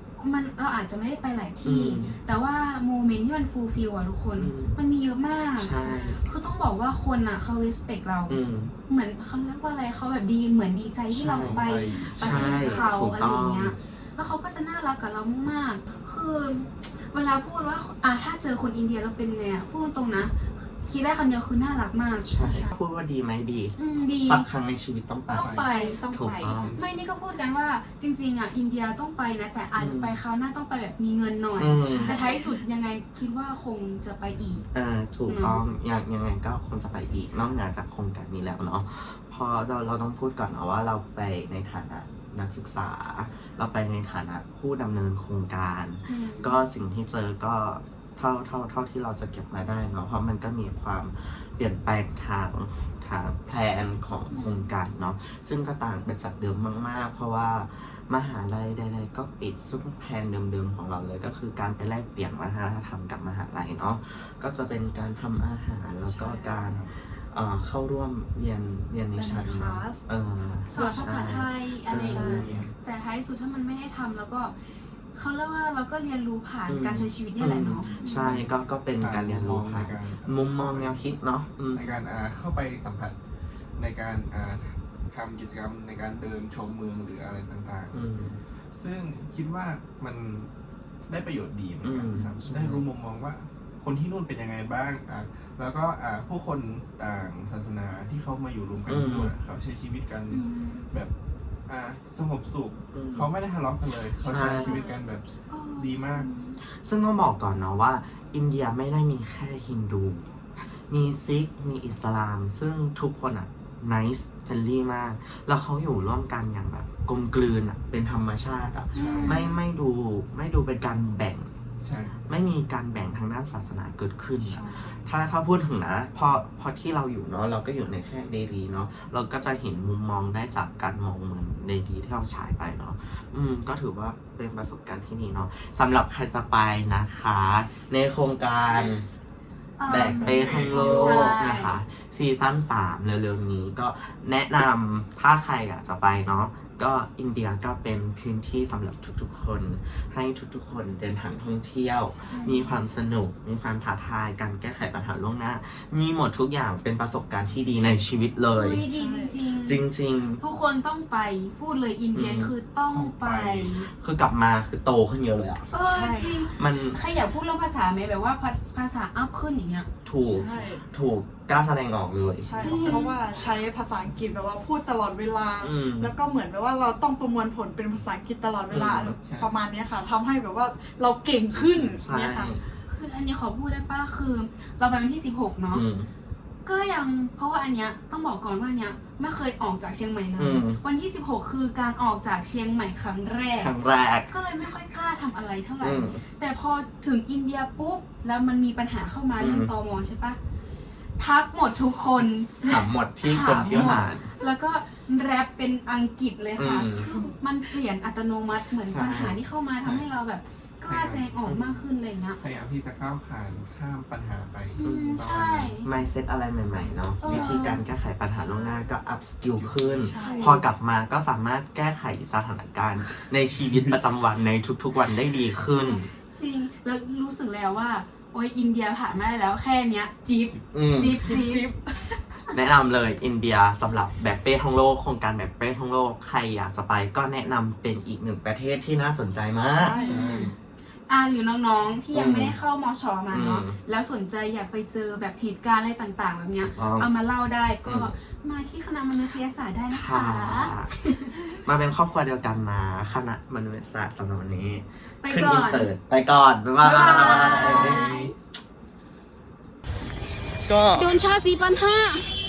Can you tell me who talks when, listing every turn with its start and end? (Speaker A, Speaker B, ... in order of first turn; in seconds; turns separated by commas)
Speaker A: 0.2-22.6, Speaker B: 1.6-2.2, Speaker B: 4.3-4.8, Speaker B: 5.6-6.2, Speaker C: 5.8-6.2, Speaker B: 8.3-8.7, Speaker B: 11.2-11.7, Speaker D: 11.3-12.6, Speaker B: 12.2-13.8, Speaker C: 12.5-12.9, Speaker B: 22.2-25.6, Speaker C: 22.4-22.8, Speaker A: 23.8-24.5, Speaker A: 25.3-26.0, Speaker D: 25.3-25.7, Speaker C: 25.6-26.6, Speaker B: 26.1-26.8, Speaker D: 26.6-26.8, Speaker A: 26.8-34.7, Speaker B: 29.8-30.2, Speaker B: 31.6-32.2, Speaker C: 31.9-32.6, Speaker B: 34.7-72.7, Speaker A: 35.3-35.6, Speaker A: 46.1-46.6, Speaker A: 54.3-54.7, Speaker C: 66.1-66.6, Speaker D: 66.6-66.9, Speaker C: 69.2-71.4, Speaker A: 70.7-74.6, Speaker D: 72.0-72.7, Speaker C: 72.0-72.5, Speaker A: 75.1-78.4, Speaker B: 76.7-82.0, Speaker D: 77.8-81.0, Speaker D: 81.7-83.2, Speaker D: 83.8-88.0, Speaker B: 87.9-88.4, Speaker D: 88.7-90.5, Speaker D: 91.1-101.1, Speaker B: 91.8-92.8, Speaker B: 98.9-99.3, Speaker A: 100.3-100.9, Speaker D: 101.7-106.3, Speaker B: 102.9-103.3, Speaker B: 104.2-104.8, Speaker A: 104.6-104.9, Speaker A: 105.5-106.6, Speaker B: 106.6-110.3, Speaker B: 110.9-121.5, Speaker D: 118.9-119.4, Speaker C: 118.9-119.6, Speaker A: 119.1-119.4, Speaker D: 121.8-122.2, Speaker B: 122.3-139.1, Speaker C: 124.4-125.0, Speaker A: 138.7-139.0, Speaker A: 139.8-141.8, Speaker B: 139.9-158.8, Speaker D: 139.9-141.3, Speaker A: 152.3-152.7, Speaker A: 158.5-159.9, Speaker C: 158.9-159.3, Speaker B: 159.6-160.4, Speaker A: 160.4-163.9, Speaker B: 162.1-165.7, Speaker D: 162.9-163.3, Speaker A: 165.7-169.9, Speaker C: 165.9-166.4, Speaker B: 166.5-167.0, Speaker B: 170.1-173.0, Speaker C: 170.3-170.8, Speaker C: 172.4-182.5, Speaker A: 172.6-173.2, Speaker B: 175.6-176.1, Speaker B: 178.7-179.2, Speaker D: 179.2-179.5, Speaker B: 181.6-182.7, Speaker A: 182.9-185.8, Speaker B: 185.7-186.1, Speaker A: 186.7-193.7, Speaker B: 190.4-190.8, Speaker B: 193.6-194.3, Speaker A: 194.3-200.4, Speaker B: 195.8-196.2, Speaker B: 199.4-199.7, Speaker A: 201.2-212.4, Speaker B: 202.6-204.3, Speaker D: 203.7-204.0, Speaker B: 206.6-207.1, Speaker B: 208.8-209.4, Speaker D: 209.8-210.1, Speaker D: 210.8-211.3, Speaker B: 211.4-211.8, Speaker D: 212.4-215.8, Speaker A: 214.8-215.9, Speaker B: 214.8-215.2, Speaker B: 215.8-226.1, Speaker A: 217.2-217.8, Speaker D: 217.3-217.6, Speaker D: 219.5-220.2, Speaker C: 220.1-220.6, Speaker A: 220.2-220.7, Speaker D: 223.6-224.0, Speaker A: 226.3-231.7, Speaker B: 230.7-231.2, Speaker C: 231.2-232.2, Speaker B: 232.5-240.0, Speaker C: 239.7-240.5, Speaker A: 240.0-240.5, Speaker D: 240.0-240.5, Speaker A: 241.1-251.4, Speaker B: 242.1-242.6, Speaker B: 243.3-243.8, Speaker B: 246.7-247.1, Speaker B: 247.8-248.2, Speaker B: 249.9-250.9, Speaker B: 251.6-258.2, Speaker A: 255.2-255.9, Speaker A: 256.8-258.3, Speaker D: 257.1-258.3, Speaker B: 260.6-261.2, Speaker A: 260.9-262.4